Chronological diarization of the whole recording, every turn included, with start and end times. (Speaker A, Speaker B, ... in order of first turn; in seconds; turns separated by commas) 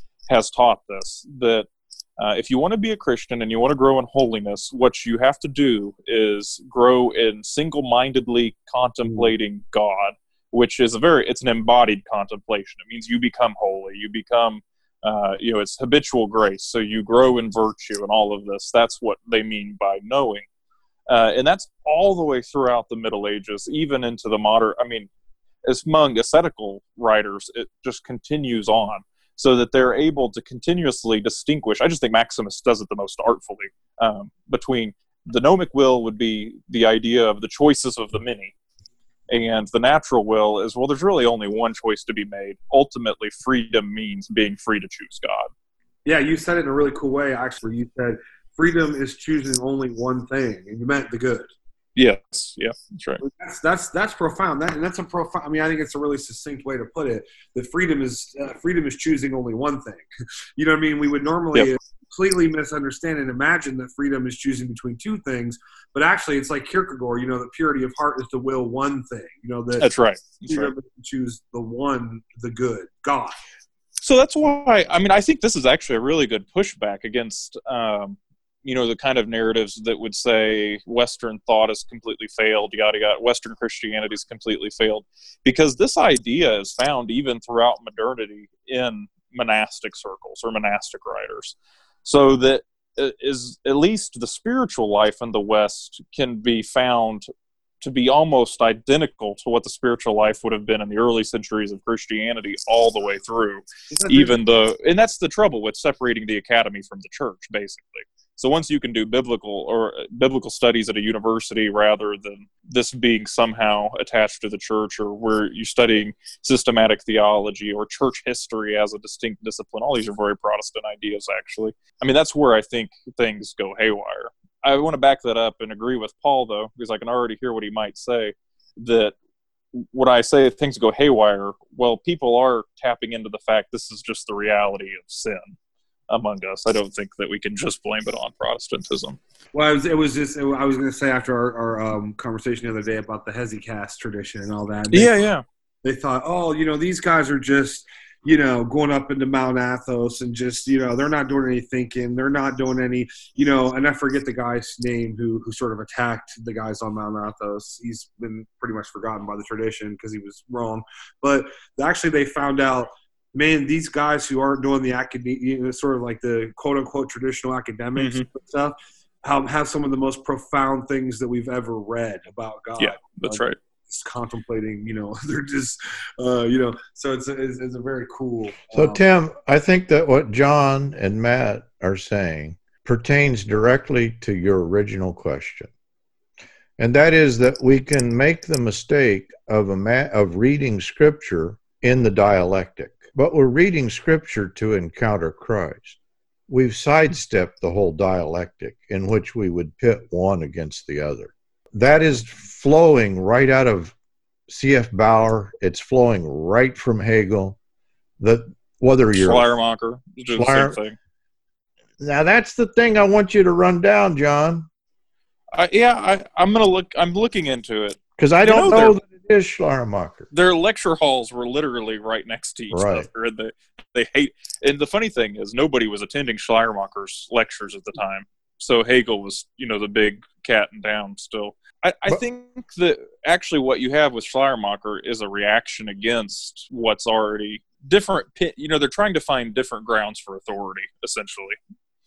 Speaker A: 0.3-20.4, Speaker A: 21.1-25.1, Speaker A: 25.6-38.5, Speaker A: 39.3-45.5, Speaker B: 46.0-51.5, Speaker A: 52.0-53.2, Speaker B: 53.2-69.8, Speaker A: 69.8-70.7, Speaker B: 70.5-73.4, Speaker A: 74.0-97.3, Speaker A: 97.8-129.1, Speaker B: 103.9-104.4, Speaker A: 129.7-135.6, Speaker A: 136.1-139.2, Speaker B: 139.5-145.2, Speaker A: 144.9-145.4, Speaker B: 145.8-179.0, Speaker A: 167.9-168.3, Speaker A: 172.8-173.6, Speaker C: 178.7-185.7, Speaker C: 186.8-196.0, Speaker C: 196.5-203.9, Speaker C: 204.5-207.6, Speaker C: 208.2-209.5, Speaker A: 209.1-210.9, Speaker C: 210.3-210.8, Speaker C: 212.0-214.7, Speaker A: 215.5-219.0, Speaker C: 218.2-220.3, Speaker A: 220.3-241.6, Speaker C: 222.7-223.1